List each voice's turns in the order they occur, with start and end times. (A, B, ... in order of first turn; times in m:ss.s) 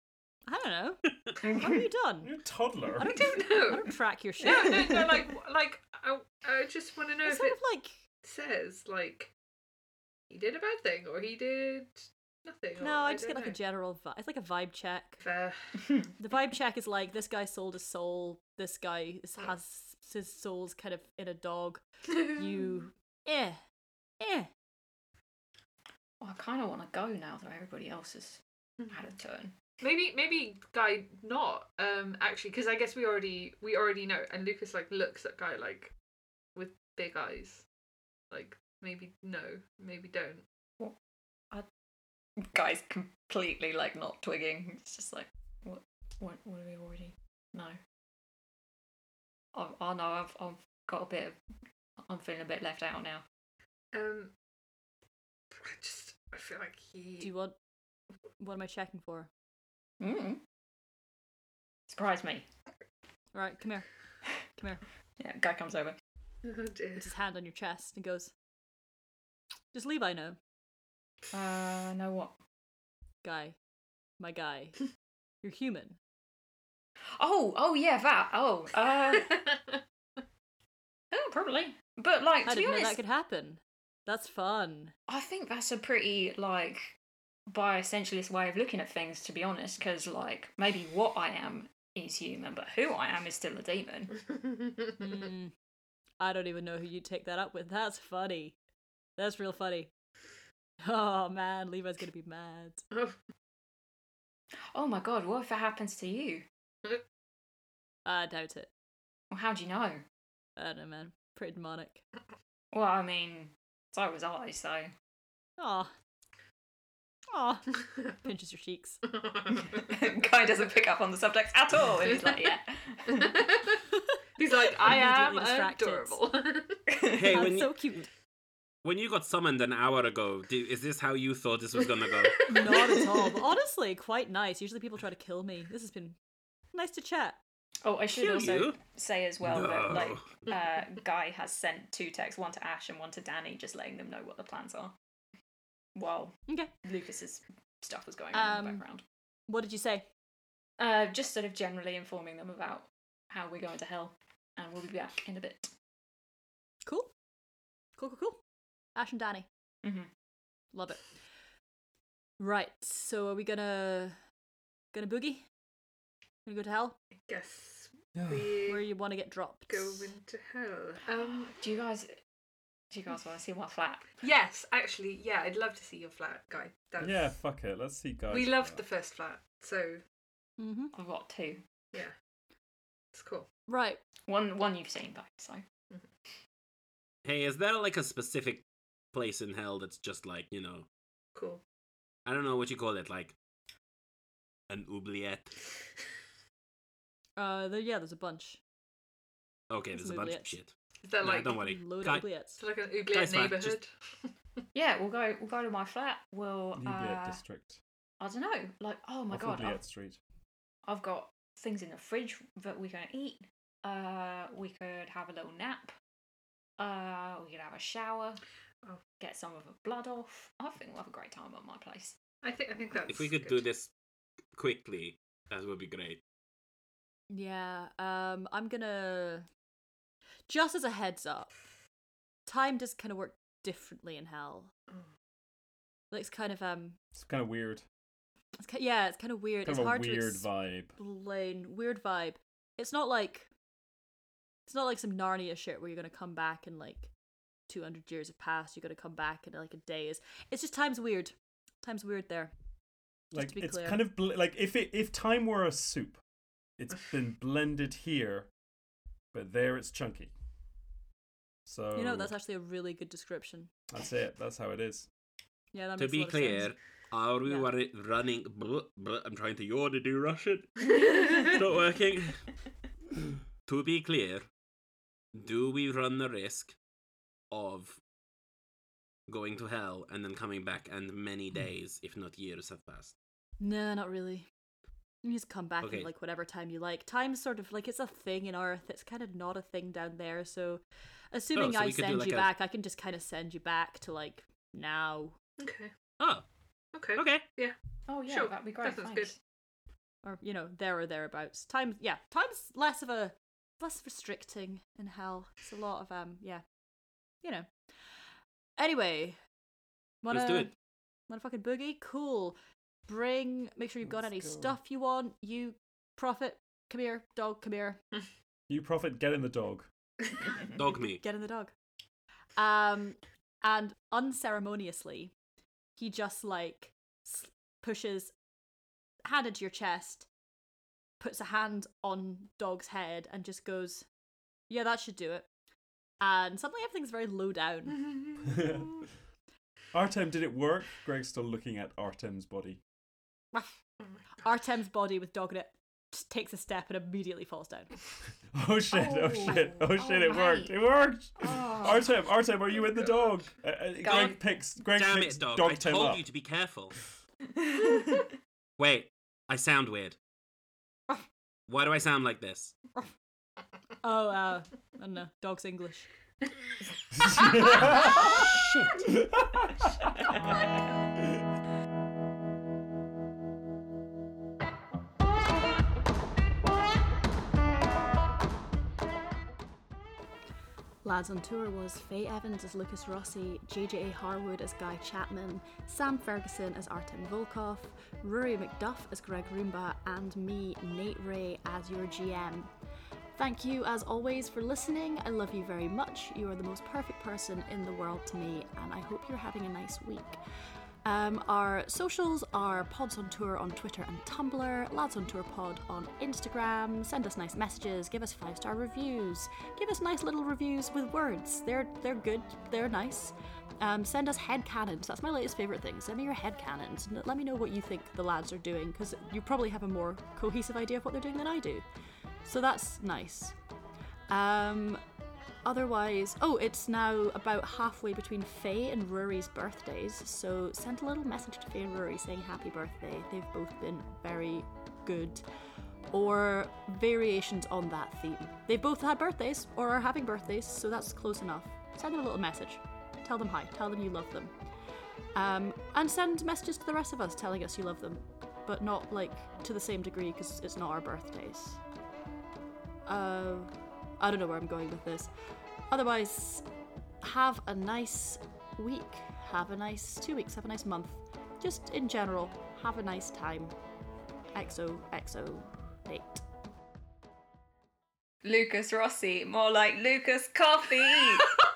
0:00.5-0:02.4 A
0:02.2-0:03.2 B
0:03.0-0:05.0 A
0:03.1-0:07.6 C
0:07.2-0:08.0 A
0:08.2-0:09.3 C
0:10.3-0:13.6 C
0:12.8-0:15.2 A
0:15.2-0:15.9 C
0:16.2-0:23.6 A
0:24.2-0:24.5 A
0:26.2-0:29.6 D
0:29.8-0:35.9 C
0:36.6-0:37.6 C
0:38.3-0:40.4 C
0:42.4-0:47.8 D
0:49.5-0:51.4 D
0:52.1-0:53.2 D
0:53.9-0:54.3 C
0:55.5-0:57.3 C
0:57.2-0:57.6 A
0:58.4-0:59.3 A
1:00.0-1:00.4 D
1:01.9-1:02.5 D
1:03.3-1:03.8 A
1:04.6-1:04.8 A
1:05.2-1:06.0 D
1:06.4-1:07.1 C
1:07.0-1:08.3 A
1:09.7-1:10.4 A
1:11.3-1:12.3 D
1:13.2-1:13.6 A
1:14.2-1:14.8 A
1:15.4-1:16.0 A
1:17.2-1:19.5 D
1:19.4-1:19.6 C
1:21.1-1:23.0 D
1:22.4-1:24.9 A
1:25.1-1:27.0 D
1:27.5-1:34.2 D
1:35.0-1:35.5 A
1:36.2-1:38.6 A
1:39.2-1:39.9 A
1:40.8-1:42.8 A
1:42.9-1:43.2 C
1:44.7-1:46.5 D
1:48.1-1:48.7 A
1:49.3-1:50.0 D
1:50.6-1:52.0 A
1:52.7-1:54.9 D
1:55.6-1:55.9 A
1:57.3-1:59.0 A
1:59.1-1:59.9 C
1:59.6-2:03.3 D
2:03.1-2:03.8 C
2:04.4-2:06.8 C
2:04.8-2:06.2 A
2:06.9-2:07.4 D
2:07.1-2:08.0 E
2:07.3-2:08.1 A
2:08.8-2:12.4 E
2:12.4-2:13.0 C
2:12.5-2:16.2 A
2:16.7-2:17.4 A
2:17.8-2:24.9 D
2:18.1-2:18.8 E
2:19.4-2:20.4 E
2:26.0-2:29.0 D
2:28.3-2:28.8 A
2:29.5-2:30.1 A
2:30.8-2:35.7 D
2:36.9-2:37.1 A
2:38.0-2:38.4 A
2:39.0-2:39.5 A
2:39.8-2:40.1 D
2:40.7-2:41.2 A
2:42.4-2:44.2 A
2:44.9-2:45.5 A
2:46.4-2:47.0 A
2:47.3-2:48.8 C
2:48.2-2:48.6 B
2:48.7-2:50.1 A
2:49.7-2:51.6 C
2:51.4-2:52.2 D
2:52.9-2:54.2 D
2:54.2-2:57.3 C
2:57.0-2:58.8 B
2:58.3-3:00.0 C
3:00.6-3:00.9 A
3:00.9-3:01.6 D
3:03.1-3:03.5 C
3:03.7-3:04.0 A
3:04.3-3:05.6 D
3:07.2-3:10.9 E
3:11.4-3:11.6 C
3:12.3-3:13.4 E
3:14.7-3:15.5 E
3:17.4-3:18.6 A
3:19.7-3:22.5 E
3:19.9-3:20.6 A
3:21.0-3:21.6 C
3:21.6-3:22.6 A
3:22.6-3:24.3 C
3:23.1-3:23.8 E
3:24.7-3:27.4 D
3:26.8-3:27.8 B
3:28.2-3:29.8 D
3:29.3-3:30.2 B
3:30.9-3:35.9 D
3:36.8-3:38.4 D
3:39.2-3:42.2 D
3:42.4-3:43.6 C
3:43.1-3:43.9 E
3:44.5-3:46.2 E
3:47.3-3:49.5 A
3:50.5-3:51.5 A
3:52.5-3:54.7 A
3:56.1-3:57.0 A
3:57.2-3:57.8 B
3:58.6-4:03.5 A
3:59.6-4:00.9 B
4:04.7-4:07.1 A
4:07.7-4:12.6 A
4:13.3-4:16.2 B
4:13.3-4:14.1 A
4:16.8-4:18.5 B
4:19.3-4:20.3 B
4:21.7-4:22.3 B
4:22.0-4:23.7 A
4:23.9-4:25.1 B
4:25.7-4:26.7 A
4:26.0-4:32.5 E
4:33.6-4:34.5 E
4:35.4-4:36.8 E
4:37.5-4:38.0 E
4:39.3-4:43.2 E
4:43.6-4:44.5 A
4:45.2-4:55.4 A
4:45.8-4:46.1 E
4:51.5-4:52.5 E
4:55.6-4:55.9 C
4:56.2-4:56.4 E
4:57.0-4:57.8 C
4:57.1-4:57.5 E
4:58.1-4:59.4 D
4:58.3-4:59.3 C
5:00.2-5:06.6 A
5:07.4-5:07.7 A
5:08.8-5:09.4 A
5:10.2-5:10.7 A
5:10.3-5:10.7 E
5:11.3-5:18.0 A
5:14.0-5:14.8 B
5:18.7-5:19.9 B
5:20.7-5:21.2 E
5:21.2-5:21.7 A
5:22.6-5:25.3 A
5:26.0-5:28.3 A
5:29.2-5:30.3 A
5:31.2-5:34.1 A
5:34.7-5:35.5 A
5:36.2-5:38.2 A
5:38.4-5:39.0 B
5:39.9-5:42.8 B
5:44.4-5:47.9 A
5:48.5-5:56.2 B
5:48.9-5:50.8 D
5:51.4-5:52.1 D
5:53.0-5:53.3 C
5:54.9-5:57.0 E
5:58.8-6:00.2 E
6:01.7-6:02.7 E
6:04.0-6:06.1 A
6:07.3-6:08.3 B
6:09.2-6:09.8 B
6:21.0-6:32.7 A
6:33.4-6:40.4 A
6:41.0-7:01.8 A
7:02.4-7:03.6 A
7:04.3-7:05.0 A
7:05.6-7:15.4 A
7:16.1-7:24.5 A
7:25.3-7:31.8 A
7:33.1-7:35.3 A
7:35.9-7:36.7 A
7:37.2-7:43.8 A
7:44.5-7:46.4 A
7:48.4-7:51.5 D